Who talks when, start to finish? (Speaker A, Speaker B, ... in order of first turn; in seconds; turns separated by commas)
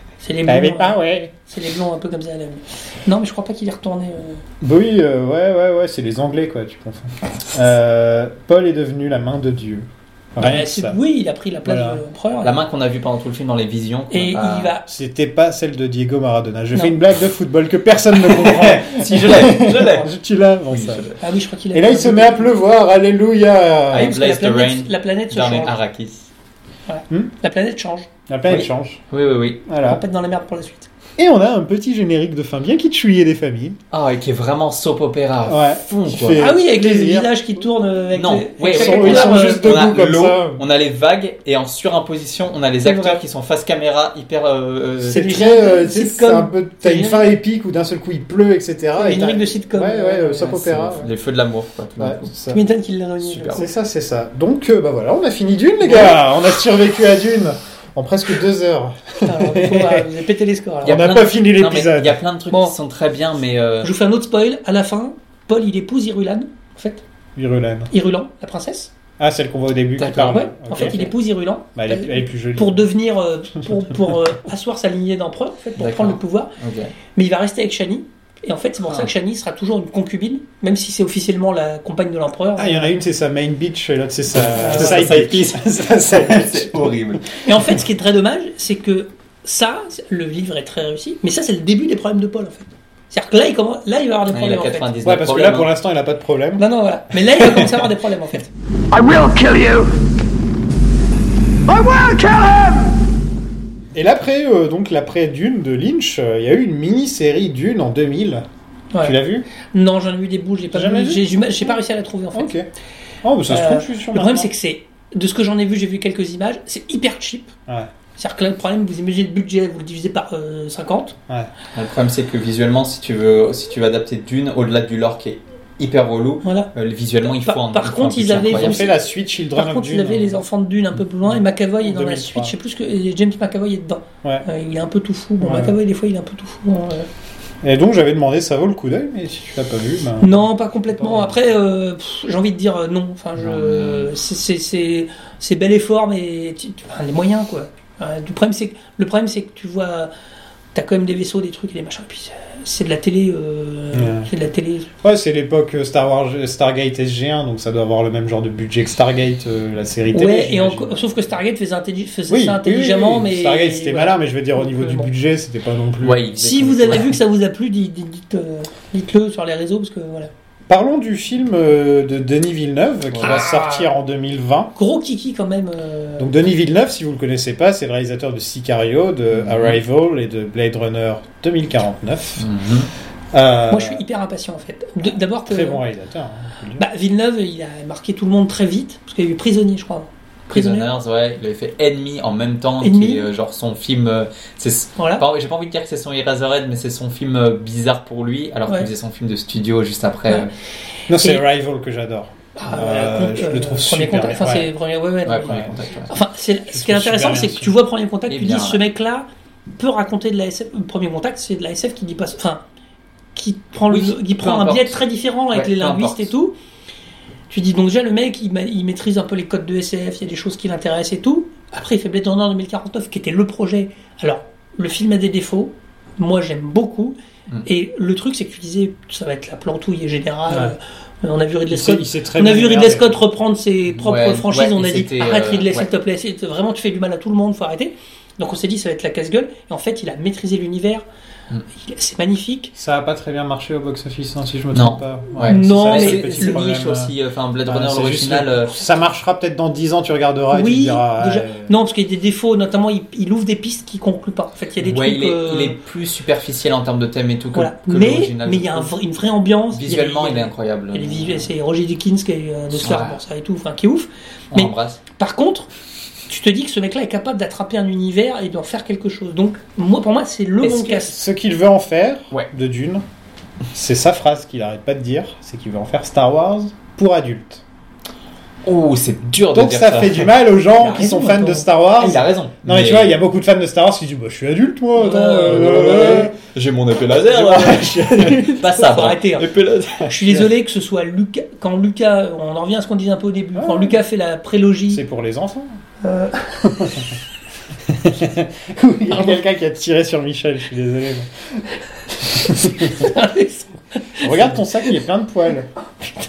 Speaker A: 0.2-4.4, Speaker B: 0.4-1.3, Speaker B: 4.6-11.0, Speaker A: 10.4-12.6, Speaker B: 11.7-12.0, Speaker C: 12.4-14.7, Speaker A: 14.1-14.8, Speaker B: 14.9-21.1, Speaker C: 18.2-20.1, Speaker C: 20.7-21.2, Speaker A: 21.2-22.6, Speaker B: 21.7-24.1, Speaker C: 23.9-26.3, Speaker A: 23.9-25.8, Speaker A: 26.9-28.1, Speaker B: 28.3-29.0, Speaker C: 28.5-29.6, Speaker B: 29.6-30.0, Speaker A: 29.9-30.9, Speaker B: 31.2-33.8, Speaker C: 33.9-36.5, Speaker B: 35.5-37.4, Speaker A: 36.4-39.9, Speaker C: 38.1-45.3, Speaker B: 38.7-40.6, Speaker A: 42.8-43.2, Speaker B: 45.0-51.1, Speaker A: 45.1-47.3, Speaker A: 49.0-50.6, Speaker C: 50.5-52.3, Speaker B: 52.0-52.6, Speaker A: 52.5-53.7, Speaker C: 53.2-53.6, Speaker B: 53.5-60.1, Speaker A: 59.2-61.1, Speaker B: 60.8-62.2, Speaker C: 60.9-63.9, Speaker A: 63.8-67.0, Speaker B: 67.3-67.9, Speaker A: 67.9-68.9, Speaker B: 69.2-71.1, Speaker C: 70.0-71.1, Speaker A: 70.3-76.5, Speaker B: 71.7-72.8, Speaker C: 75.8-76.9, Speaker A: 77.2-82.9, Speaker B: 82.6-86.9, Speaker C: 84.4-87.4, Speaker A: 84.5-85.2, Speaker A: 87.4-94.9, Speaker C: 94.3-95.7, Speaker B: 95.0-96.7, Speaker A: 96.6-98.5, Speaker D: 98.9-99.9, Speaker D: 101.7-103.0, Speaker B: 103.9-108.5, Speaker A: 108.9-112.5, Speaker B: 109.0-109.5, Speaker B: 110.7-111.7, Speaker B: 112.3-112.7, Speaker B: 113.2-114.5, Speaker A: 113.5-117.5, Speaker A: 118.2-121.2, Speaker C: 121.7-128.8, Speaker A: 126.4-126.7, Speaker A: 127.3-129.0, Speaker B: 128.4-130.4, Speaker A: 129.5-137.1, Speaker B: 131.3-132.5, Speaker B: 135.4-135.8, Speaker B: 137.6-140.4, Speaker A: 140.2-150.1, Speaker B: 141.0-141.3, Speaker C: 143.4-144.1, Speaker A: 150.7-154.9, Speaker B: 153.9-154.3, Speaker B: 155.0-161.0, Speaker A: 160.1-165.1, Speaker B: 162.3-166.7, Speaker C: 166.0-167.2, Speaker A: 166.4-170.3, Speaker B: 170.7-174.7, Speaker C: 173.1-173.4, Speaker A: 173.2-173.9, Speaker A: 174.7-176.3, Speaker B: 176.2-182.5, Speaker C: 179.3-179.8, Speaker C: 182.4-182.9, Speaker B: 183.3-184.0, Speaker A: 183.7-185.8, Speaker B: 185.4-186.8, Speaker A: 186.8-190.9, Speaker C: 190.5-200.5, Speaker A: 192.8-193.3, Speaker A: 195.0-195.2, Speaker B: 201.1-204.7, Speaker A: 202.6-212.6, Speaker C: 205.2-206.1, Speaker B: 205.5-205.7, Speaker B: 206.7-207.7, Speaker C: 208.3-208.8, Speaker A: 213.3-216.6, Speaker C: 213.9-216.3, Speaker A: 217.5-241.0, Speaker B: 230.5-230.7, Speaker B: 231.7-233.2, Speaker C: 233.9-235.9, Speaker A: 241.7-242.7, Speaker B: 242.8-247.1, Speaker C: 244.7-248.8, Speaker A: 245.4-246.6, Speaker B: 247.7-251.7, Speaker A: 250.5-255.8, Speaker C: 254.8-258.9, Speaker A: 257.5-265.7, Speaker C: 259.7-261.5, Speaker C: 262.7-263.2, Speaker C: 264.5-265.0, Speaker A: 266.3-271.2, Speaker C: 270.6-271.1, Speaker B: 271.0-273.0, Speaker B: 273.7-277.6, Speaker C: 278.6-280.3, Speaker B: 279.5-286.3, Speaker A: 280.7-281.7, Speaker C: 282.0-283.2, Speaker A: 284.9-286.2, Speaker C: 285.4-290.4, Speaker B: 287.3-288.7, Speaker A: 288.6-289.5, Speaker A: 290.1-295.0, Speaker B: 293.6-294.0, Speaker B: 294.9-295.8, Speaker A: 296.0-296.7, Speaker B: 296.6-297.1, Speaker B: 297.9-301.6, Speaker B: 302.2-303.1, Speaker A: 302.4-304.4, Speaker B: 304.2-305.7